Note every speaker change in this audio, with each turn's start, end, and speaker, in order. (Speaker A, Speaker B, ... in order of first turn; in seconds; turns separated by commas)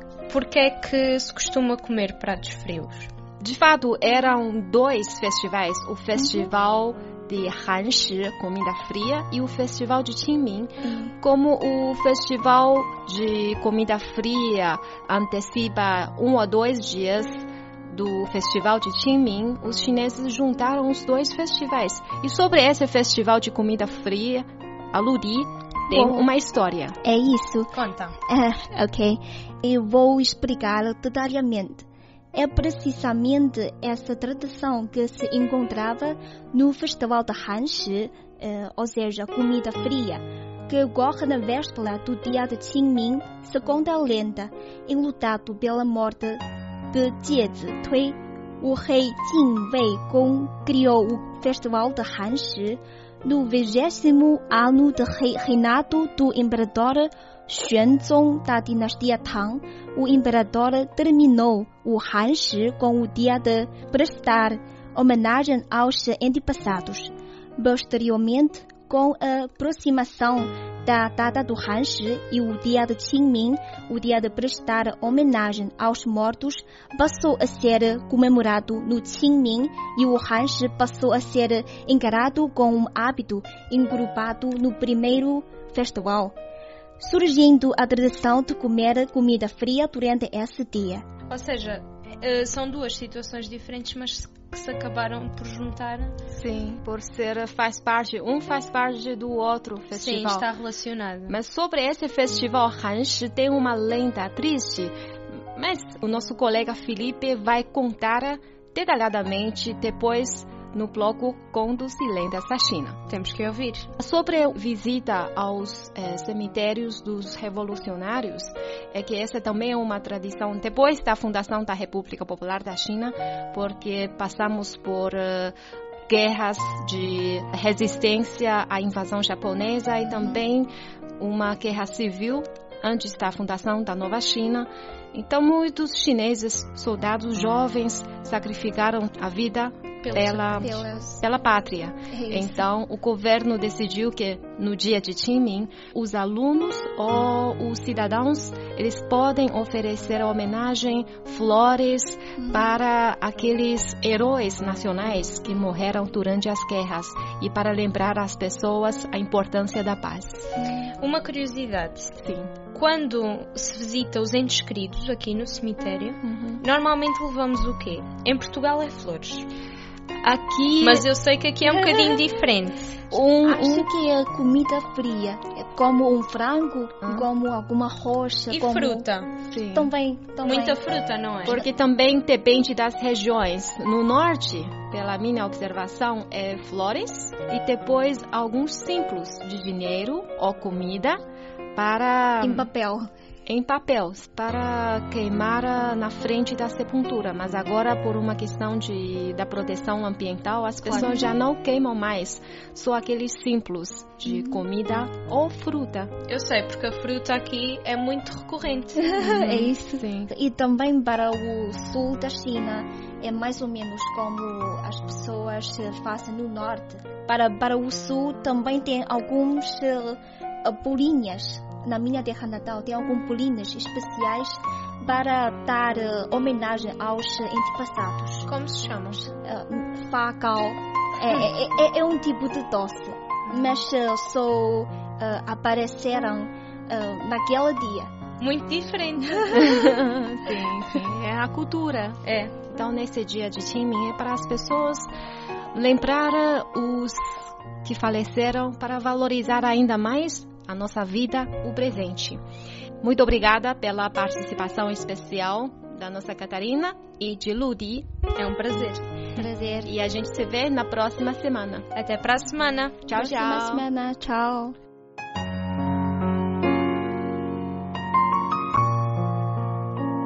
Speaker A: 0.3-3.1, Speaker B: 3.4-17.4, Speaker C: 10.8-11.1, Speaker B: 17.9-27.0, Speaker C: 27.0-86.3, Speaker A: 27.7-28.2, Speaker C: 87.0-91.0, Speaker A: 91.3-96.2, Speaker B: 96.3-100.5, Speaker A: 100.0-101.4, Speaker B: 101.3-104.9, Speaker B: 105.5-113.0, Speaker A: 113.1-113.9, Speaker B: 114.0-125.5, Speaker B: 126.1-160.5, Speaker A: 140.0-140.7, Speaker C: 140.6-141.2, Speaker C: 142.1-142.7, Speaker C: 160.6-160.9, Speaker A: 161.0-169.5, Speaker B: 162.2-162.6, Speaker B: 166.2-166.6, Speaker B: 170.2-171.1, Speaker A: 170.8-173.1, Speaker B: 171.7-172.2, Speaker B: 173.1-173.9, Speaker C: 173.4-179.1, Speaker A: 178.5-179.4, Speaker B: 179.5-179.9, Speaker C: 179.6-180.9, Speaker A: 180.4-181.6, Speaker B: 181.4-191.2, Speaker B: 191.8-192.7, Speaker C: 192.4-193.1, Speaker B: 193.5-206.2, Speaker C: 204.2-204.6, Speaker A: 206.3-209.1, Speaker C: 208.9-228.5, Speaker B: 209.2-210.3, Speaker A: 228.5-229.2, Speaker C: 229.2-238.1, Speaker B: 233.5-233.8, Speaker A: 238.4-239.5, Speaker B: 239.5-245.1, Speaker A: 242.2-242.6, Speaker B: 245.7-247.3, Speaker B: 247.8-252.4, Speaker B: 253.0-258.1, Speaker A: 258.4-259.1, Speaker C: 259.4-259.9, Speaker B: 259.9-261.9, Speaker A: 261.9-263.1, Speaker B: 263.1-263.9, Speaker C: 263.1-264.8